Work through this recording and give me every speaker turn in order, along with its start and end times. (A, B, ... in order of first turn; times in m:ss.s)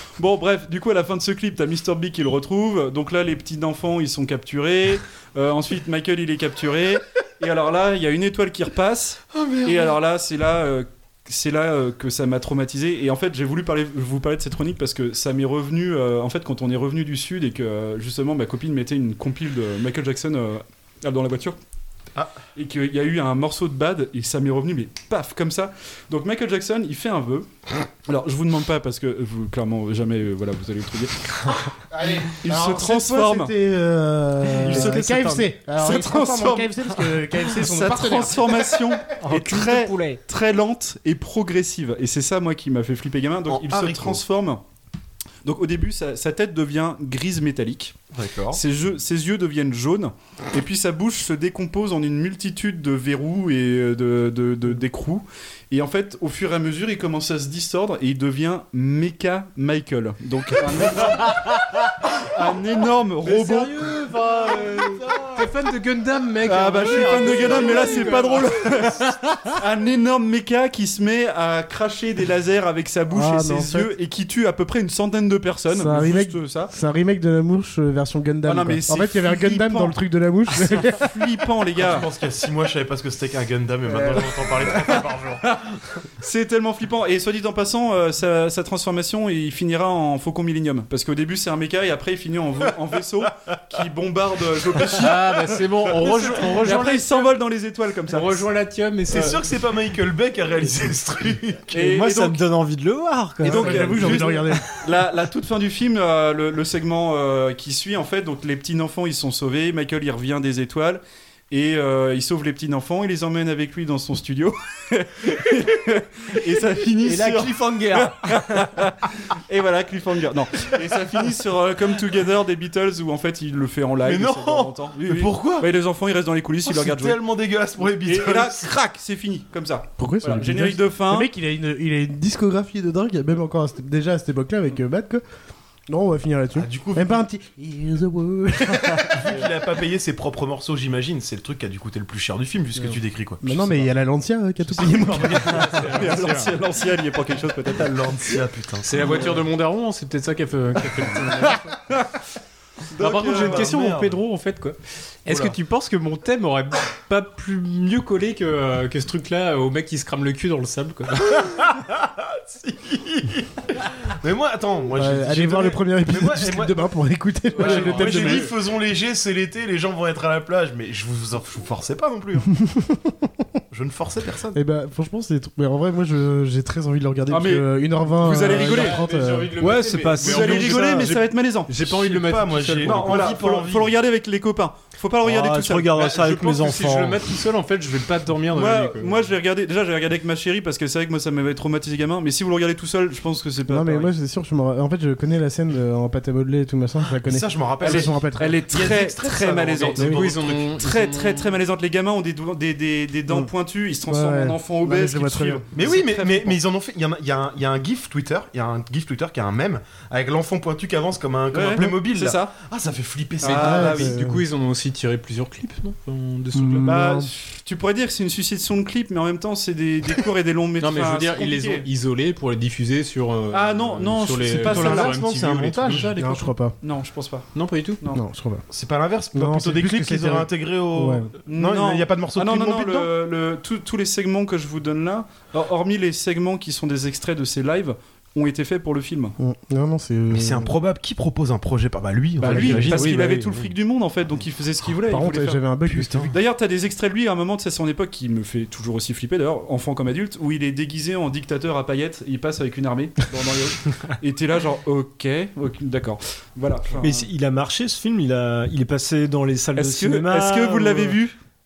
0:00.2-0:21.6 A
0:09.3-0:09.9 B
0:22.5-0:27.5 A
0:28.0-0:31.5 A
0:31.9-0:38.9 C
0:32.3-0:33.5 A
0:34.6-0:44.6 A
0:39.2-0:40.2 D
0:43.5-0:44.2 B
0:45.4-0:48.0 A
0:48.1-0:48.6 B
0:48.5-1:01.5 A
1:02.2-1:03.8 A
1:03.2-1:08.4 E
1:04.0-1:05.3 D
1:06.4-1:09.0 A
1:07.1-1:08.4 D
1:09.0-1:09.4 E
1:09.5-1:16.7 A
1:13.1-1:13.9 C
1:15.7-1:21.2 C
1:18.4-1:20.0 A
1:20.5-1:22.0 A
1:21.8-1:25.6 B
1:23.9-1:24.5 C
1:26.2-1:35.2 A
1:34.9-1:37.3 E
1:36.0-1:38.4 A
1:38.1-1:39.4 E
1:39.1-1:41.7 B
1:41.7-1:42.4 A
1:41.7-1:44.2 D
1:43.4-2:07.2 A
1:43.4-1:44.7 C
1:57.1-1:58.1 B
1:57.2-1:58.1 D
2:04.0-2:05.7 B
2:06.6-2:08.7 B
2:07.8-2:11.3 A
2:10.0-2:15.2 C
2:15.9-2:19.4 C
2:16.6-2:17.2 B
2:19.1-2:23.9 B
2:23.4-2:25.9 C
2:24.9-2:25.8 B
2:24.9-2:26.5 E
2:25.9-2:27.9 A
2:27.6-2:29.3 B
2:28.8-2:31.7 E
2:32.9-2:33.7 A
2:33.0-2:41.7 E
2:33.0-2:34.2 B
2:35.3-2:35.6 B
2:41.5-2:46.9 B
2:44.9-2:48.5 C
2:47.6-2:48.5 E
2:47.6-2:52.6 B
2:52.6-2:53.1 C
2:53.7-2:54.6 B
2:54.5-2:59.7 C
2:57.3-2:59.0 A
2:58.2-3:03.3 E
2:59.6-3:01.2 D
3:00.2-3:01.7 A
3:01.8-3:03.9 B
3:02.8-3:03.3 D
3:02.9-3:05.9 A
3:05.2-3:07.2 D
3:05.9-3:09.2 E
3:08.5-3:14.1 A
3:13.7-3:18.8 C
3:17.2-3:20.5 B
3:17.8-3:26.6 A
3:19.8-3:21.6 E
3:20.0-3:20.3 C
3:24.0-3:25.6 C
3:25.7-3:33.9 B
3:31.5-3:32.5 A
3:33.4-3:34.1 A
3:33.4-3:37.0 E
3:33.5-3:34.4 C
3:36.5-3:37.3 C
3:36.8-3:41.8 A
3:40.8-3:46.5 E
3:43.5-3:45.2 A
3:44.5-3:46.1 B
3:46.2-3:46.8 C
3:46.8-3:48.2 A
3:47.5-3:48.0 E
3:48.1-3:48.6 C
3:48.7-3:53.1 B
3:49.3-3:51.3 C
3:51.5-3:59.3 A
3:59.4-4:00.7 C
4:00.3-4:03.2 B
4:02.4-4:05.6 A
4:02.4-4:03.2 C
4:05.1-4:06.4 C
4:05.9-4:06.3 B
4:06.3-4:17.3 A
4:17.0-4:21.2 D
4:19.7-4:21.4 A